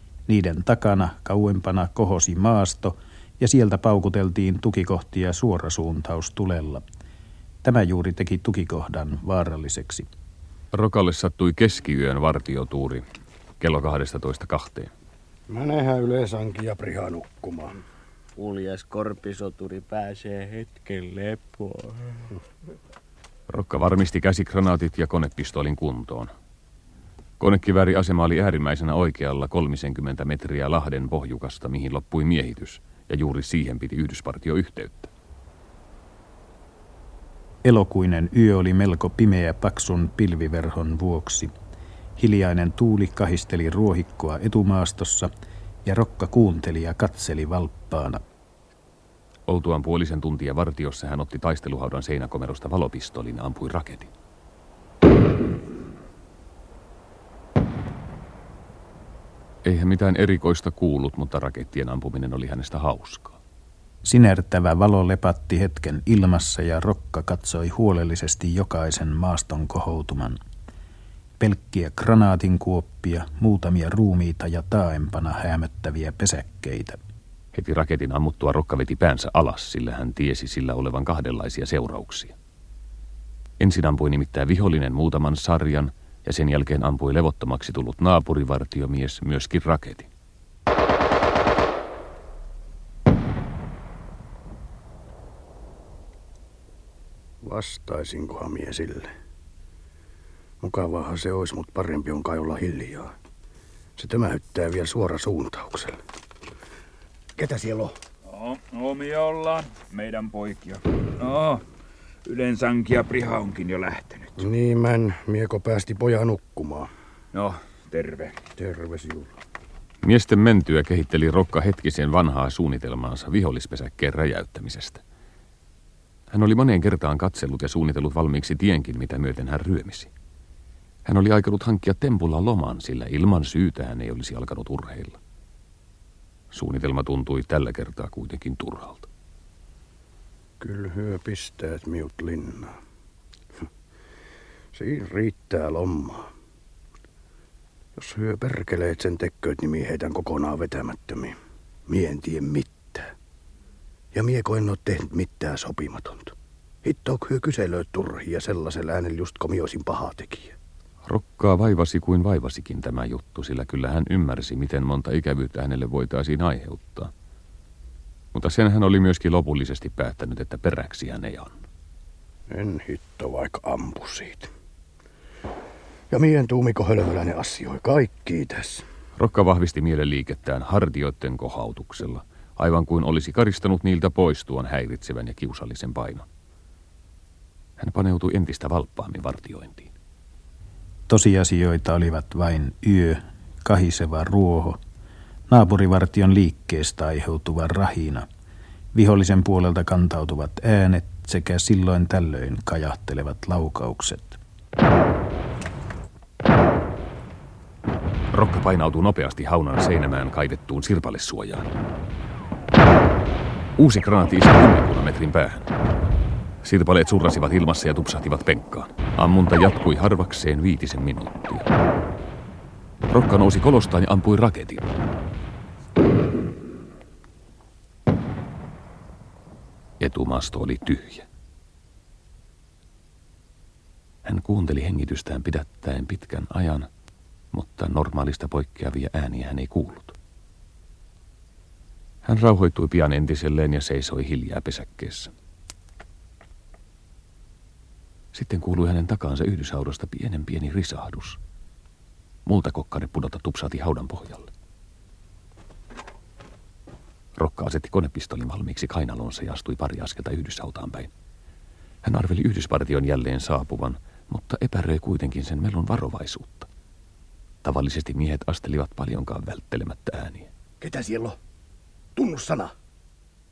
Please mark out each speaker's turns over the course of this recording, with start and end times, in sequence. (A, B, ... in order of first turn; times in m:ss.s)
0:00.3-0:06.8 A
0:07.6-0:10.1 A
0:10.7-0:13.0 B
0:13.6-0:14.9 B
0:15.5-0:17.8 C
0:18.4-0:22.1 D
0:23.5-0:26.3 B
0:27.4-0:35.1 B
0:37.6-0:41.5 A
0:42.2-0:45.3 A
0:45.8-0:48.2 A
0:49.5-0:54.1 B
0:59.6-1:03.4 B
1:04.0-1:10.4 A
1:11.4-1:17.0 A
1:17.5-1:22.3 B
1:23.6-1:30.1 B
1:37.4-1:39.1 C
1:40.6-1:43.1 C
1:44.0-1:46.0 C
1:47.4-1:48.0 C
1:48.3-1:51.6 E
1:52.3-1:54.2 E
1:54.4-1:56.9 C
1:57.4-1:58.3 E
1:58.6-1:59.3 C
2:00.0-2:05.0 B
2:06.3-2:10.1 B
2:11.0-2:15.2 B
2:16.5-2:19.1 B
2:20.6-2:22.8 C
2:24.7-2:26.3 C
2:28.0-2:31.4 C
2:31.9-2:33.1 C
2:34.1-2:40.6 C
2:41.1-2:47.1 B
2:48.3-2:51.5 B
2:52.5-2:54.5 C
2:56.1-2:58.8 C
2:59.2-3:06.3 B
3:07.8-3:09.9 B
3:11.1-3:14.8 A
3:15.5-3:18.3 A
3:18.9-3:24.4 A
3:28.3-3:31.7 B
3:33.8-3:35.7 B
3:36.6-3:41.7 B
3:43.1-3:44.9 B
3:50.0-3:51.3 B
3:54.2-3:56.9 B
3:57.5-4:00.2 B
4:02.2-4:05.3 B
4:08.3-4:11.4 B
4:12.5-4:14.5 B
4:17.4-4:21.1 B
4:22.0-4:26.7 B
4:27.6-4:30.5 B
4:30.8-4:31.4 C
4:32.2-4:32.7 C